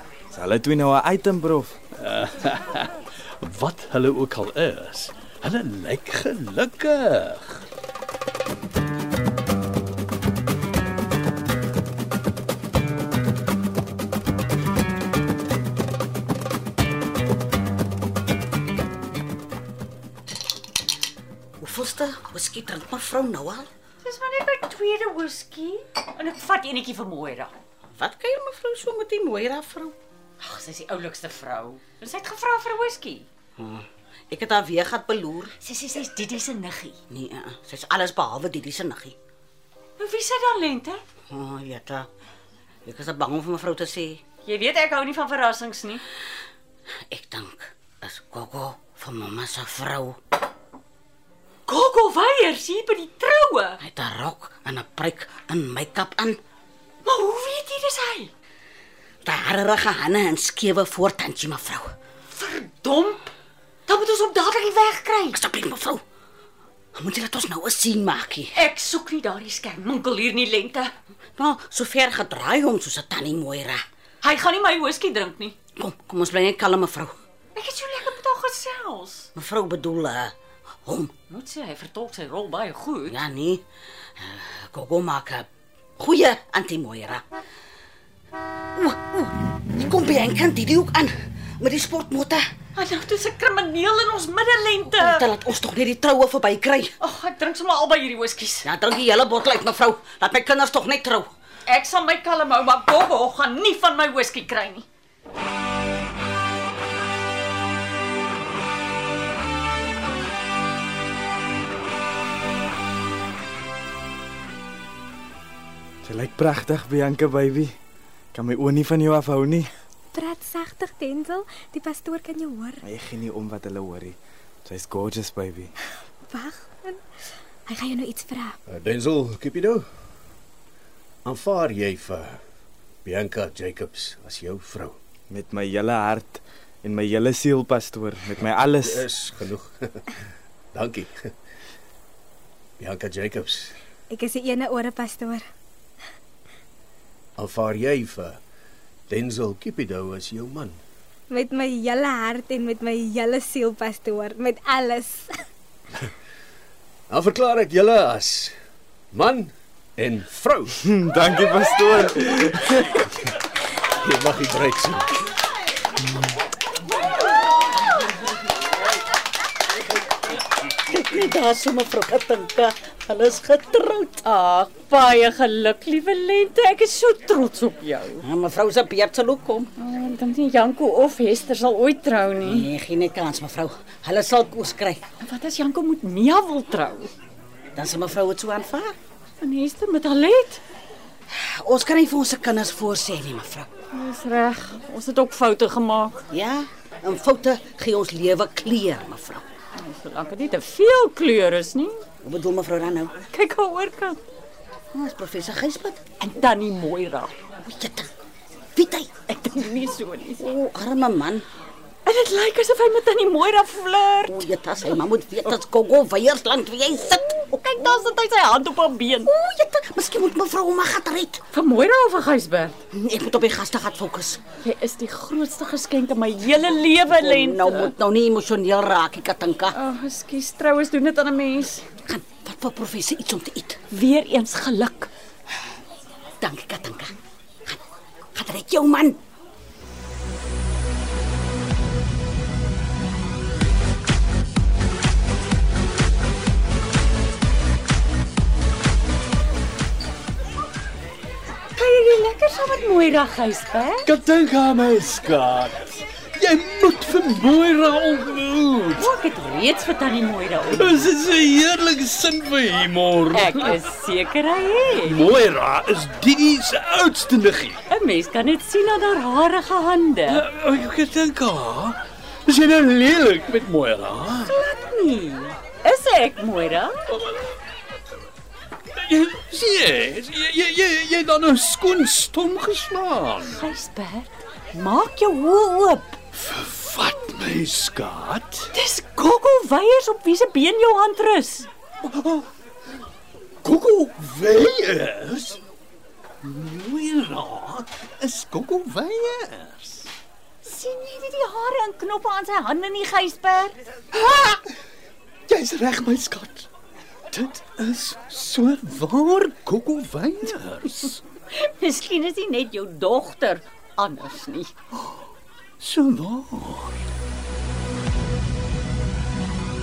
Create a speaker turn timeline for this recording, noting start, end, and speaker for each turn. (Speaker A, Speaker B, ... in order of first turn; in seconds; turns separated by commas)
Speaker A: 0.3-1.8, Speaker B: 2.0-7.6, Speaker C: 21.6-23.7, Speaker D: 24.0-27.5, Speaker C: 27.9-30.0, Speaker D: 30.4-33.3, Speaker C: 33.6-35.5, Speaker D: 35.6-37.0, Speaker C: 37.1-39.2, Speaker D: 40.0-41.0, Speaker C: 41.3-42.1, Speaker C: 42.9-44.2, Speaker D: 44.4-46.0, Speaker C: 47.1-50.2, Speaker D: 51.7-53.8, Speaker C: 53.8-56.4, Speaker D: 57.0-58.3, Speaker C: 59.2-61.9, Speaker D: 62.3-63.3, Speaker D: 63.9-65.4, Speaker C: 65.3-66.0, Speaker C: 67.0-68.6, Speaker D: 68.5-70.9, Speaker C: 71.4-73.8, Speaker D: 74.2-75.6, Speaker C: 75.8-77.2, Speaker D: 77.5-79.3, Speaker C: 79.4-80.3, Speaker C: 80.8-81.1, Speaker D: 81.3-83.2, Speaker C: 83.1-83.6, Speaker C: 84.2-85.5, Speaker C: 86.0-87.3, Speaker C: 88.8-92.5, Speaker D: 92.8-95.3, Speaker C: 95.0-96.9, Speaker D: 97.0-98.7, Speaker C: 98.6-101.3, Speaker D: 101.7-104.9, Speaker A: 116.0-117.7, Speaker A: 118.3-119.7, Speaker E: 120.1-122.8, Speaker A: 122.8-125.7, Speaker E: 126.3-127.0, Speaker E: 127.7-128.6, Speaker F: 128.7-129.9, Speaker F: 131.2-132.4, Speaker F: 133.1-135.0, Speaker A: 135.3-139.1, Speaker F: 138.6-140.2, Speaker F: 140.7-141.3, Speaker F: 142.8-143.8, Speaker E: 144.1-145.5, Speaker F: 147.4-148.4, Speaker F: 149.1-150.8, Speaker E: 151.3-155.4, Speaker F: 157.1-158.6, Speaker F: 159.1-160.8, Speaker A: 160.8-163.0, Speaker F: 164.0-165.2, Speaker C: 170.7-174.2, Speaker D: 174.2-178.2, Speaker C: 178.2-179.7, Speaker D: 179.8-182.7, Speaker C: 182.4-185.0, Speaker D: 185.2-187.1, Speaker C: 187.8-189.0, Speaker D: 189.4-190.6, Speaker C: 191.3-193.7, Speaker D: 193.9-196.2, Speaker C: 196.3-199.4, Speaker D: 199.8-202.0, Speaker C: 202.2-203.2, Speaker D: 203.3-204.2, Speaker C: 204.9-206.0, Speaker D: 206.2-207.4, Speaker C: 207.6-208.1, Speaker C: 208.8-209.1, Speaker D: 209.1-210.4, Speaker C: 210.4-211.4, Speaker D: 212.1-214.5, Speaker C: 214.3-218.1, Speaker D: 217.6-219.3, Speaker C: 219.3-221.4, Speaker D: 221.5-222.8, Speaker C: 222.9-224.4, Speaker D: 224.6-227.9, Speaker C: 227.1-229.8, Speaker D: 229.7-231.8, Speaker C: 232.1-233.8, Speaker D: 233.9-235.1, Speaker C: 236.4-237.2, Speaker C: 238.3-239.2, Speaker D: 251.7-254.1, Speaker B: 254.1-259.1, Speaker D: 259.0-261.1, Speaker B: 260.7-263.8, Speaker D: 263.3-265.2, Speaker B: 265.0-267.8, Speaker D: 267.9-270.4, Speaker B: 270.3-274.5, Speaker D: 274.4-277.0, Speaker B: 277.1-277.5, Speaker B: 278.9-283.6, Speaker D: 283.5-286.2, Speaker B: 286.4-288.7, Speaker D: 288.7-291.7, Speaker B: 292.0-292.5, Speaker B: 293.6-295.6, Speaker B: 296.4-300.1, Speaker D: 300.6-303.8, Speaker B: 304.1-304.6, Speaker B: 305.5-306.7, Speaker B: 307.3-311.2, Speaker D: 311.5-314.7, Speaker B: 315.8-317.0